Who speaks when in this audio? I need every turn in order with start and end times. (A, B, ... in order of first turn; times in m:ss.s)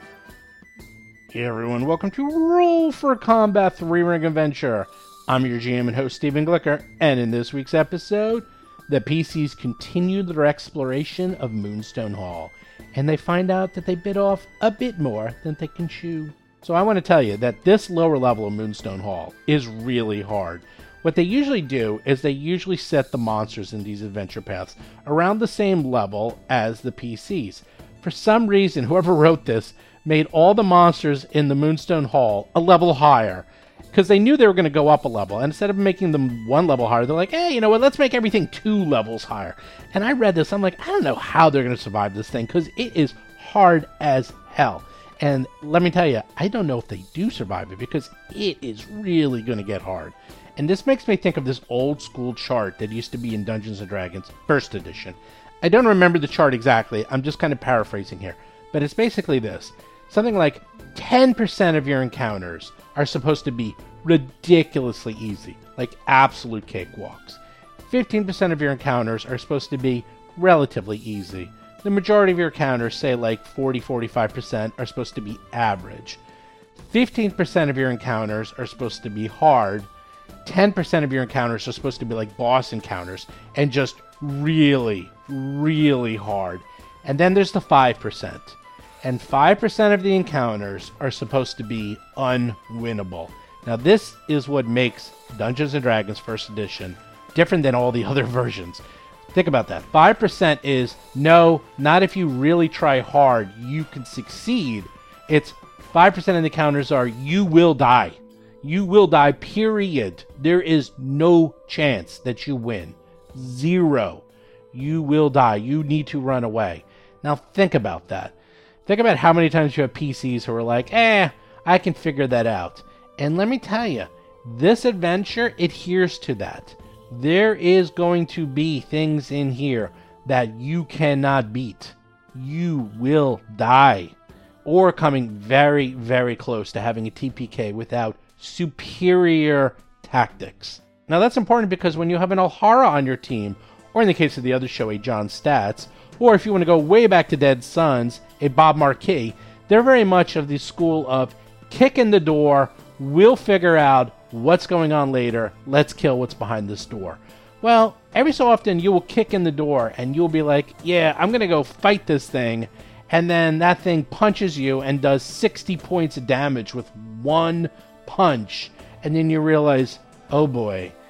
0:01.3-1:16.2 A
1:16.8-1:19.9 A
1:20.4-1:38.8 A
1:39.3-1:58.3 A
1:58.8-2:50.9 A